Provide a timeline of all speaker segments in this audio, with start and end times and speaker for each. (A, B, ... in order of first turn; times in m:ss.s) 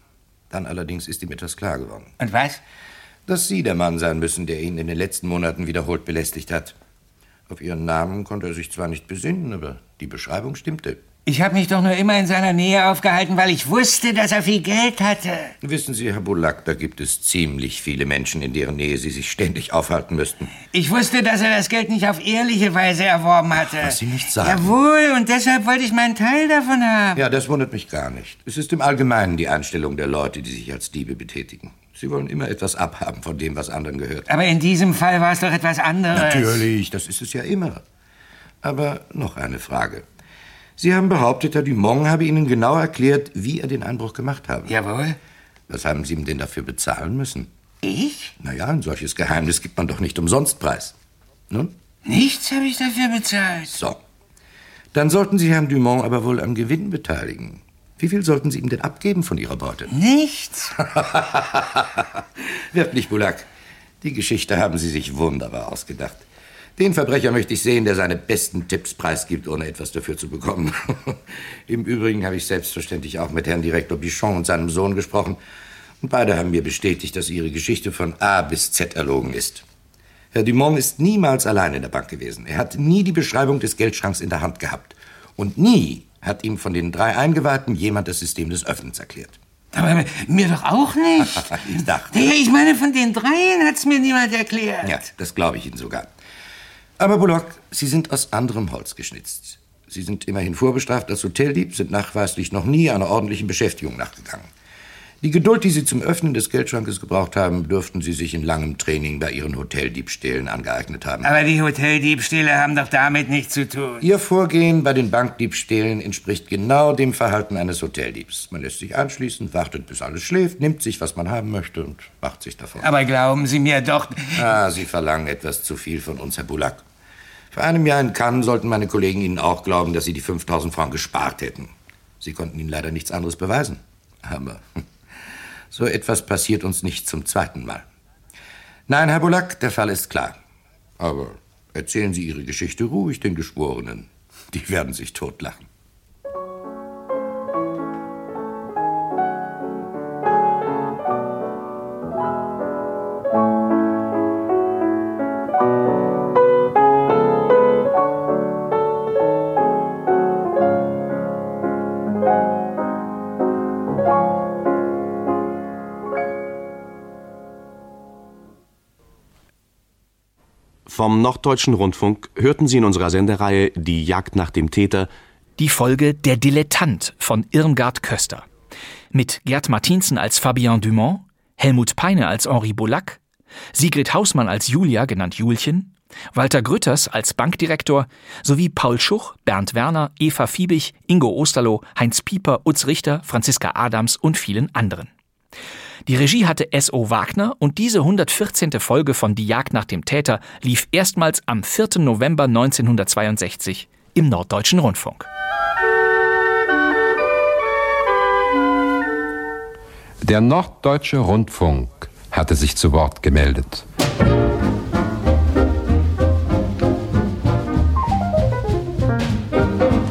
0:00.5-0:02.1 A
0:02.2-0:02.6 B
0:03.3-0:06.7 A
0:07.5-0:11.1 A
0:11.2-0:15.5 B
0:15.6-0:20.5 A
0:20.6-0:27.2 B
0:23.6-0:24.7 A
0:27.2-0:34.3 A
0:34.3-0:36.7 B
0:36.1-0:37.8 A
0:38.6-0:40.0 A
0:40.8-0:44.7 A
0:44.7-0:45.2 B
0:45.7-0:47.5 A
0:47.8-0:48.3 B
0:48.4-0:50.9 A
0:52.0-0:53.7 B
0:53.7-0:54.0 A
0:54.9-0:59.9 A
0:59.9-1:00.7 B
1:01.0-1:01.8 A
1:02.7-1:03.5 A
1:04.0-1:06.2 A
1:06.8-1:11.1 A
1:11.7-1:15.4 A
1:16.0-1:19.6 A
1:20.3-1:29.4 A
1:29.7-1:34.9 B
1:31.4-1:32.2 A
1:34.8-1:36.1 A
1:37.0-1:44.5 A
1:45.2-1:51.3 A
1:51.2-1:54.0 B
1:54.0-2:02.9 A
2:02.8-2:04.5 B
2:04.4-2:06.8 A
2:07.5-2:14.6 A
2:15.7-2:17.8 A
2:18.9-2:20.4 A
2:21.0-2:25.6 A
2:50.9-2:55.1 C
2:55.6-2:58.4 D
2:59.1-3:03.2 D
3:03.7-3:15.1 D
3:16.1-3:25.3 D
3:30.2-3:33.8 E